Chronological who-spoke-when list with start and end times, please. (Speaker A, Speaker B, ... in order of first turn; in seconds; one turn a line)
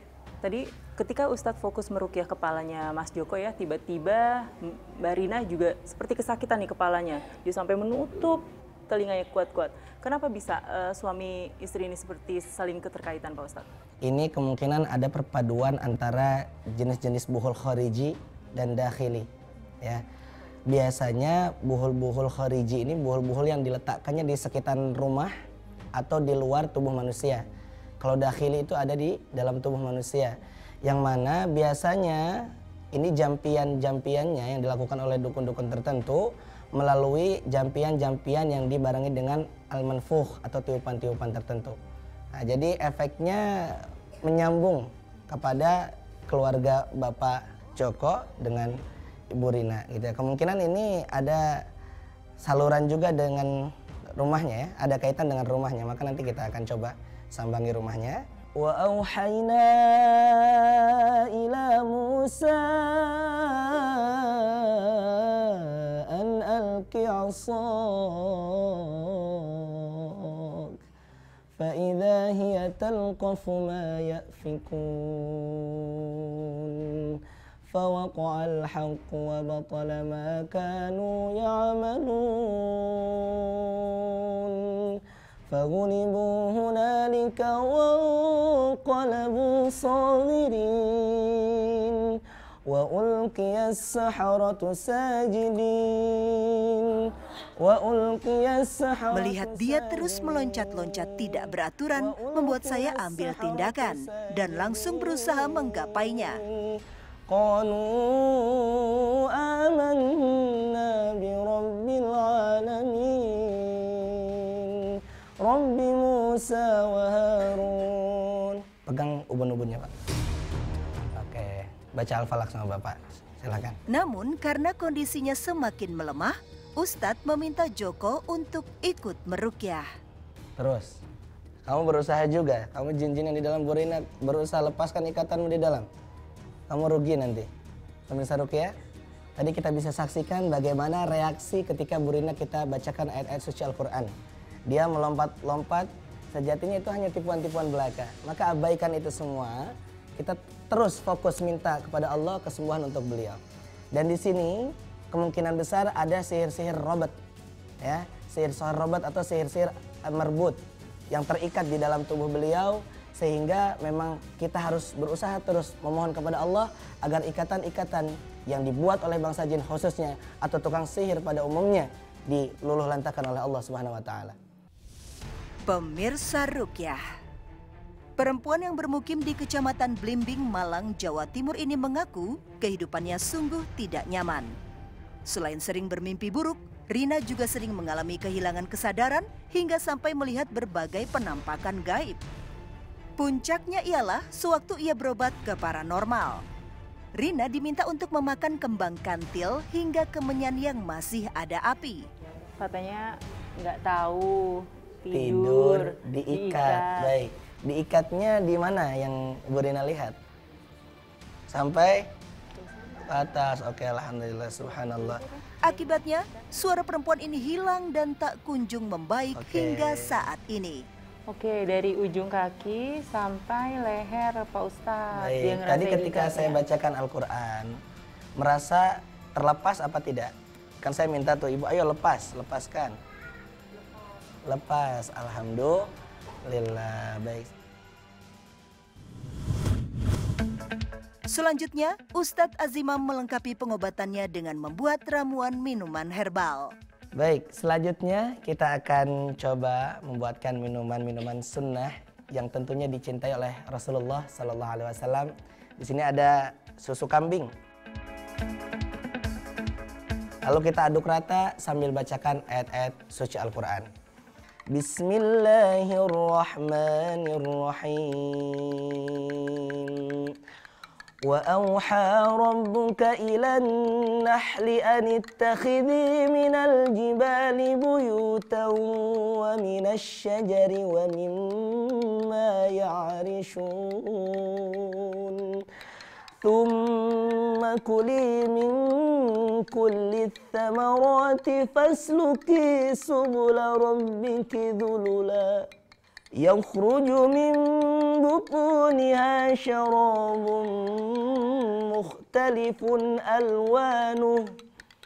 Speaker A: 0.4-13.7
Speaker B: 14.0-19.3
Speaker B: 20.7-25.3
Speaker B: 25.9-27.5
Speaker B: 28.0-41.8
Speaker B: 42.3-48.8
Speaker B: 49.3-51.6
Speaker B: 52.4-70.8
Speaker B: 71.6-119.9
Speaker C: 99.1-106.4
Speaker B: 121.2-123.8
Speaker C: 123.9-129.9
Speaker B: 130.6-131.0
Speaker B: 131.7-135.9
Speaker B: 136.7-137.5
Speaker B: 138.1-138.7
Speaker B: 139.4-144.1
Speaker B: 144.7-153.4
Speaker B: 153.9-157.2
Speaker B: 157.8-160.6
Speaker B: 161.1-174.4
Speaker C: 175.7-177.0
Speaker C: 178.2-184.6
Speaker C: 185.3-192.2
Speaker C: 193.2-196.4
Speaker C: 197.2-202.1
Speaker A: 202.6-207.1
Speaker B: 205.1-210.2
Speaker B: 211.5-212.1
Speaker B: 213.0-215.2
Speaker C: 215.6-220.8
Speaker B: 219.3-220.2
Speaker A: 221.3-226.6
Speaker B: 225.1-227.8
Speaker B: 228.4-233.0
Speaker B: 234.5-235.9
Speaker B: 236.4-237.5
Speaker C: 241.3-246.8
Speaker B: 247.2-257.5
Speaker B: 260.4-263.9
Speaker B: 264.7-270.3
Speaker B: 271.2-285.6
Speaker B: 286.4-295.7
Speaker B: 296.4-304.6